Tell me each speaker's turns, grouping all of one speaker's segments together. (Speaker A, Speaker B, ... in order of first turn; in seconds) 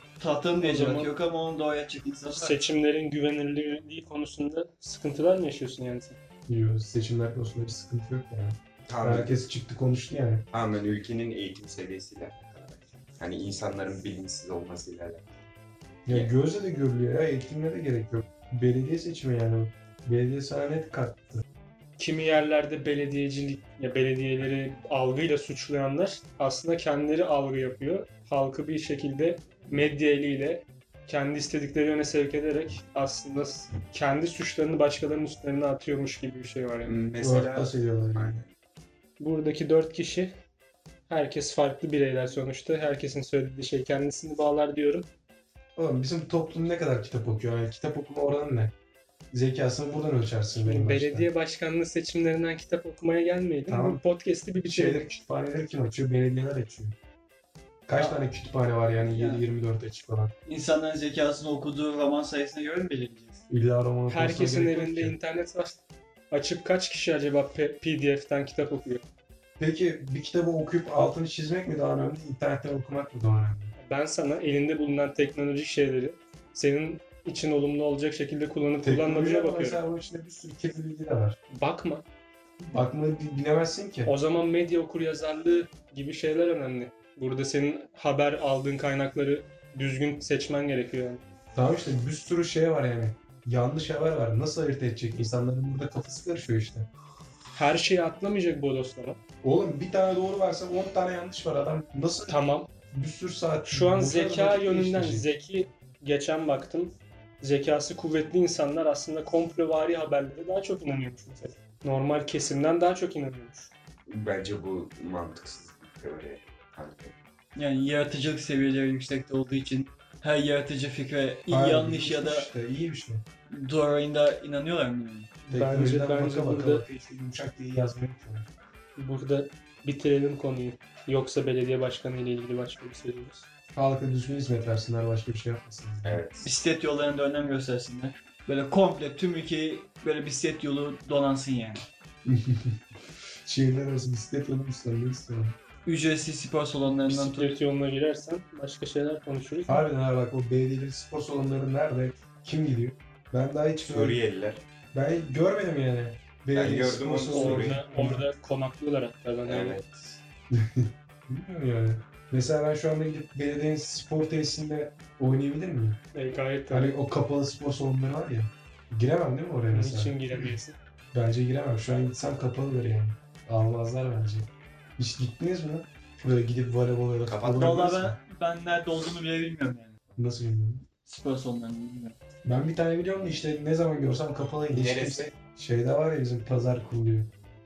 Speaker A: 0.2-2.6, 58.0-58.3, 59.0-59.4, 60.5-63.4, 117.5-122.5, 123.5-125.3, 136.4-141.8, 145.8-147.6, 177.6-180.0, 181.1-182.2
Speaker B: 0.6-1.1, 2.3-6.2, 22.0-37.0, 39.2-40.4, 41.1-45.1, 50.6-55.0, 64.1-65.8, 66.3-69.0, 73.8-79.8, 81.5-82.0, 84.0-91.2, 97.5-99.2, 102.3-102.7, 103.7-113.7, 125.5-126.8, 129.0-133.5, 147.0-149.8, 157.3-159.8, 166.1-166.9, 169.7-170.8
Speaker C: 6.5-10.4, 16.1-21.4, 37.2-38.5, 45.8-48.7, 49.3-51.3, 53.7-54.0, 54.6-57.0, 57.9-60.3, 63.5-65.2, 69.6-73.7, 78.8-81.4, 82.7-84.1, 91.5-96.9, 99.4-102.4, 102.9-105.3, 121.5-123.2, 125.5-128.5, 133.7-136.2, 142.2-142.8, 143.4-145.6, 149.7-154.2, 154.9-158.2, 160.5-166.0, 166.7-170.5, 171.1-178.2, 180.2-180.8, 182.4-187.3
Speaker D: 8.9-9.3, 10.5-15.2, 36.8-38.4, 114.1-117.1, 136.0-136.5, 153.8-154.6, 156.5-157.8, 159.4-160.2, 177.2-177.9, 184.7-185.3